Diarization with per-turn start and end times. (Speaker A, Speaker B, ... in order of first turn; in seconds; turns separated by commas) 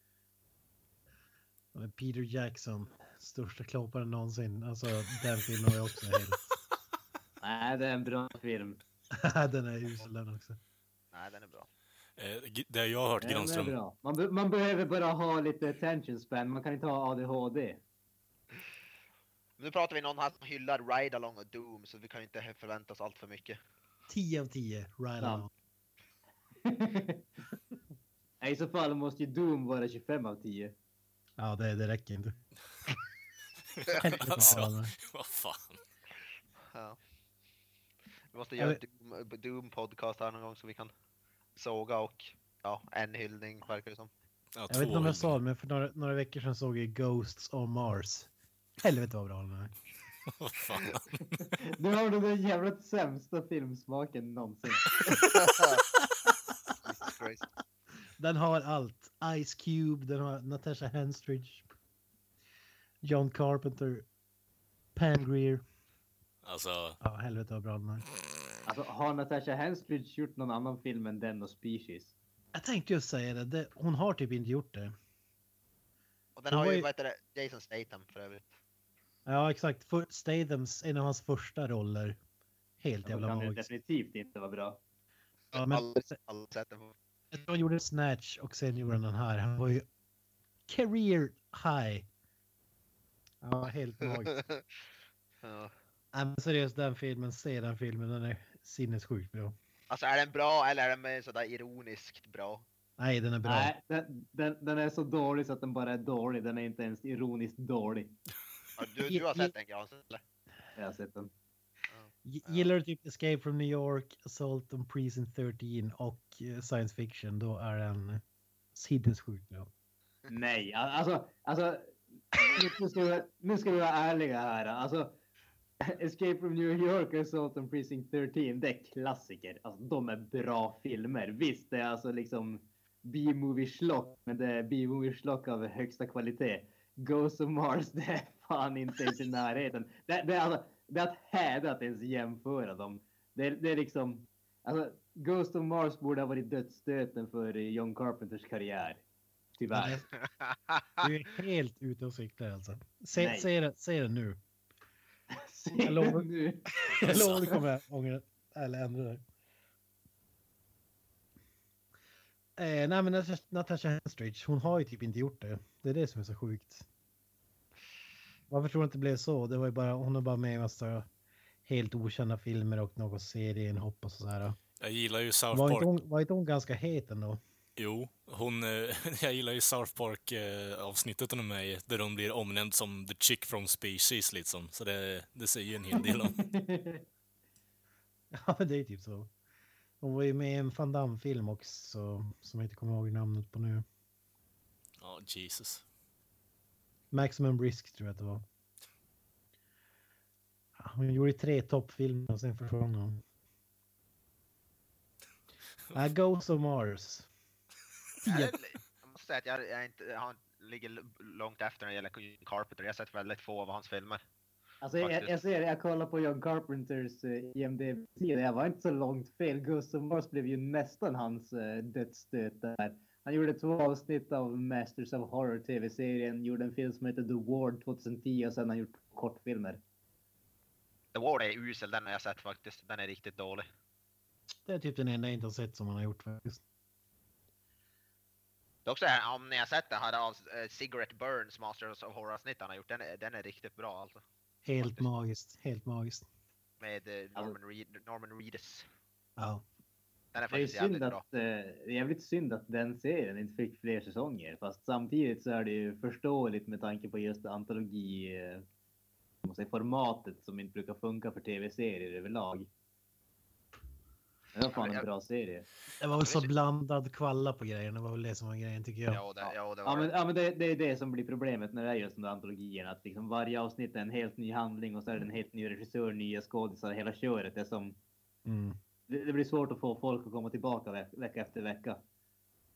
Speaker A: 1.7-6.5, Speaker B: 7.4-8.8, Speaker A: 9.1-10.6, Speaker C: 11.1-11.7, Speaker D: 12.2-13.7, Speaker B: 13.2-17.8, Speaker C: 19.6-23.6, Speaker A: 24.1-25.5, Speaker B: 25.2-25.5, Speaker B: 26.6-27.2, Speaker B: 28.4-30.7, Speaker A: 31.4-32.4, Speaker D: 33.8-35.8, Speaker C: 33.9-34.6, Speaker A: 33.9-34.9, Speaker C: 36.7-37.0, Speaker C: 38.3-40.9, Speaker C: 41.5-44.1, Speaker D: 44.5-45.3, Speaker A: 44.7-49.7, Speaker D: 50.3-51.4, Speaker B: 51.4-54.9, Speaker C: 55.1-55.8, Speaker A: 55.9-56.4, Speaker C: 56.8-57.4, Speaker A: 58.2-61.7, Speaker A: 63.0-64.0, Speaker A: 64.9-65.6, Speaker D: 66.4-67.0, Speaker A: 67.0-68.0, Speaker B: 68.6-72.1, Speaker A: 72.5-74.9, Speaker C: 76.3-78.4, Speaker A: 76.5-76.9, Speaker A: 79.2-82.2, Speaker A: 82.8-83.7, Speaker B: 83.0-84.8, Speaker A: 85.5-86.0, Speaker C: 85.5-86.9, Speaker A: 87.3-89.8, Speaker A: 90.7-92.1, Speaker A: 93.4-94.4, Speaker C: 94.3-94.6, Speaker C: 95.4-95.7, Speaker A: 96.1-99.5, Speaker C: 99.9-102.6, Speaker A: 103.0-103.7, Speaker B: 103.4-108.1, Speaker C: 108.8-110.2, Speaker A: 109.0-109.5, Speaker B: 110.8-111.3, Speaker C: 111.9-112.7, Speaker A: 112.2-118.2, Speaker A: 118.7-119.7, Speaker B: 120.3-125.2, Speaker B: 125.8-149.0, Speaker B: 149.6-150.0, Speaker A: 149.7-150.1, Speaker C: 150.3-151.1, Speaker A: 151.0-154.4, Speaker B: 153.2-153.5, Speaker B: 155.3-157.2, Speaker A: 155.8-159.2, Speaker D: 157.0-157.6, Speaker A: 162.6-166.8, Speaker A: 168.5-171.1, Speaker A: 171.6-174.6, Speaker D: 174.8-175.9, Speaker A: 175.5-177.4, Speaker D: 177.8-186.5, Speaker B: 186.3-187.0, Speaker A: 188.3-189.3, Speaker A: 190.0-193.8, Speaker D: 195.0-195.8, Speaker A: 197.1-198.4, Speaker A: 200.8-203.2, Speaker A: 205.9-207.3, Speaker A: 208.2-208.6, Speaker C: 208.2-214.2, Speaker B: 214.8-229.8, Speaker C: 215.0-215.3, Speaker C: 231.1-233.7, Speaker A: 234.7-236.6, Speaker C: 238.8-244.2, Speaker A: 244.6-246.2, Speaker C: 244.8-245.1, Speaker C: 246.8-248.8, Speaker A: 249.4-249.6, Speaker C: 250.3-251.2, Speaker B: 250.5-258.6, Speaker B: 259.4-262.7, Speaker B: 264.5-265.6, Speaker C: 264.7-265.0, Speaker A: 266.0-269.2, Speaker C: 266.1-266.5, Speaker C: 269.1-270.1, Speaker B: 269.4-278.0, Speaker A: 278.4-278.8, Speaker B: 279.1-282.0